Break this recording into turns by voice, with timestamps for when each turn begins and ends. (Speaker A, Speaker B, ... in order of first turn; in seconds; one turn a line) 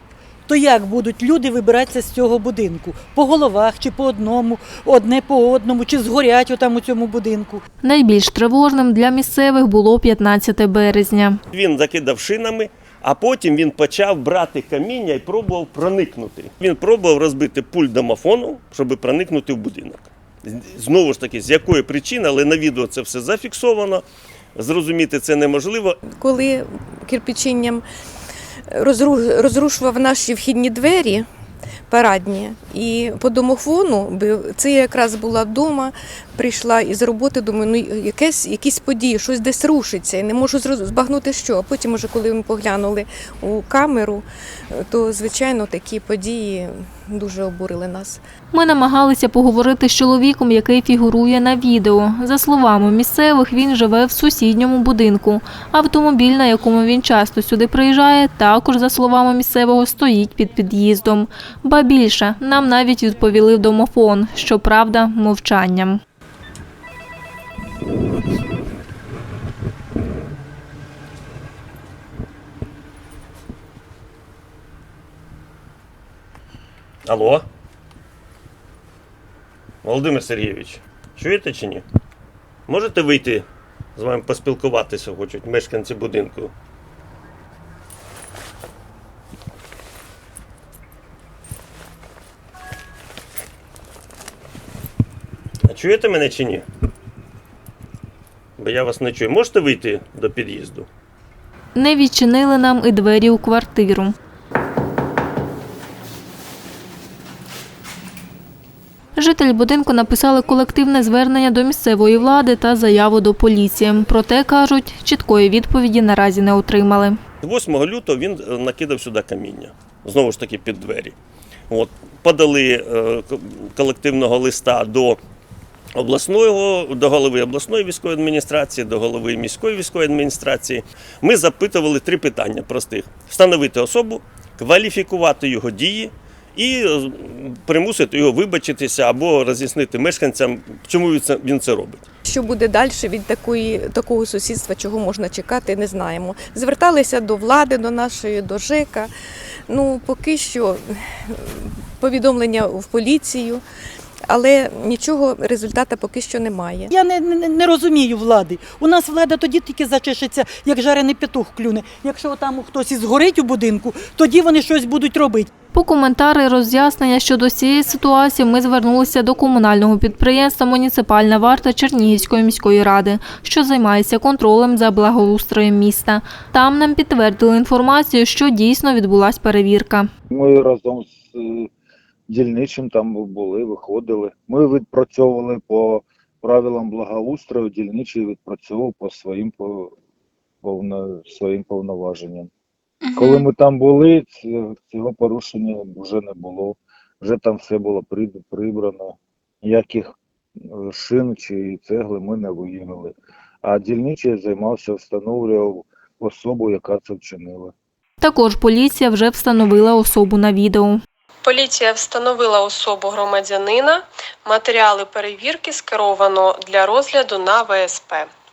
Speaker A: 0.5-7.6
Speaker B: 7.8-11.4
Speaker C: 11.5-24.0
Speaker C: 24.6-26.0
Speaker D: 26.1-27.9
Speaker D: 28.7-31.3
Speaker D: 31.9-48.2
Speaker B: 48.5-66.0
Speaker C: 77.0-77.5
Speaker C: 79.8-81.8
Speaker C: 82.7-86.5
Speaker C: 95.7-96.7
Speaker C: 98.6-100.9
Speaker B: 101.8-104.2
Speaker B: 109.2-117.2
Speaker C: 117.4-121.2
Speaker C: 121.7-125.2
Speaker C: 126.0-142.0
Speaker D: 142.3-149.1
Speaker D: 149.7-153.6
Speaker D: 154.3-156.9
Speaker A: 156.9-165.5
Speaker B: 165.7-180.1
Speaker E: 180.3-181.7
Speaker E: 182.3-189.9
Speaker E: 190.6-192.5
Speaker E: 193.1-200.1
Speaker E: 200.7-207.7
Speaker B: 208.2-211.0
Speaker F: 211.4-218.3